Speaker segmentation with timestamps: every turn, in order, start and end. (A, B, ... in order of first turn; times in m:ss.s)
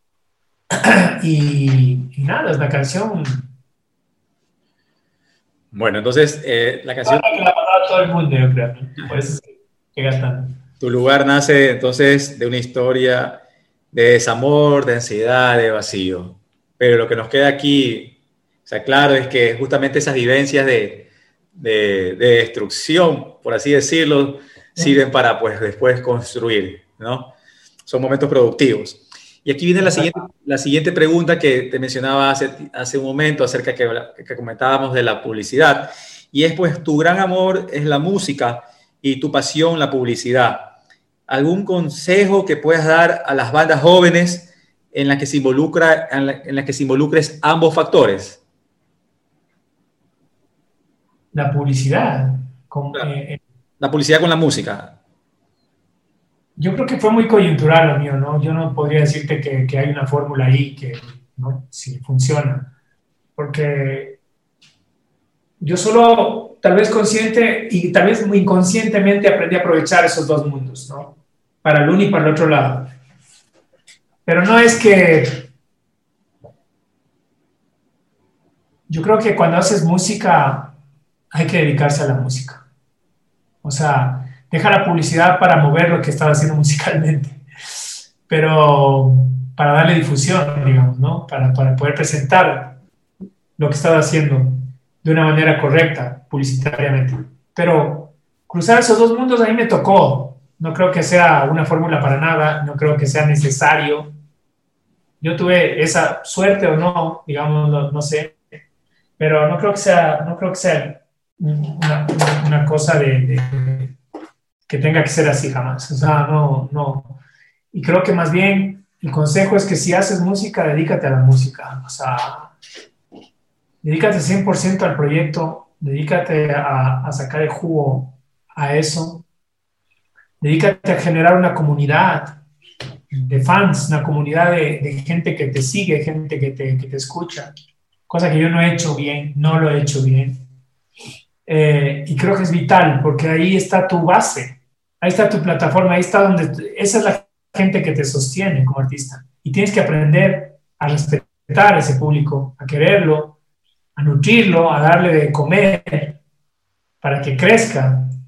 0:00.7-0:03.5 A
0:05.7-0:07.3 B
0:07.0-0:10.6 A
0:10.8-0:27.3 B
0:27.9-0:40.7 B
0:29.8-0:30.3 A
0:41.3-0:48.4 B
0:51.3-0:53.4 A
0:53.8-0:55.0 B
0:56.6-1:02.7 A
1:03.4-1:04.2 A
1:05.6-1:12.9 A
1:14.3-1:15.5 A
1:18.9-1:20.8 A
1:21.3-1:22.6 A
1:23.6-1:27.4 A
1:28.3-1:32.8 A
1:33.6-1:44.1 A
1:45.2-1:48.4 A
1:49.2-1:54.0 A
1:54.7-1:57.2 A
1:57.7-2:02.5 A
2:03.8-2:09.2 A
2:10.4-2:12.4 A
2:13.1-2:17.5 A
2:18.1-2:20.4 A
2:21.4-2:33.4 A
2:34.0-2:36.2 A
2:37.0-2:38.1 A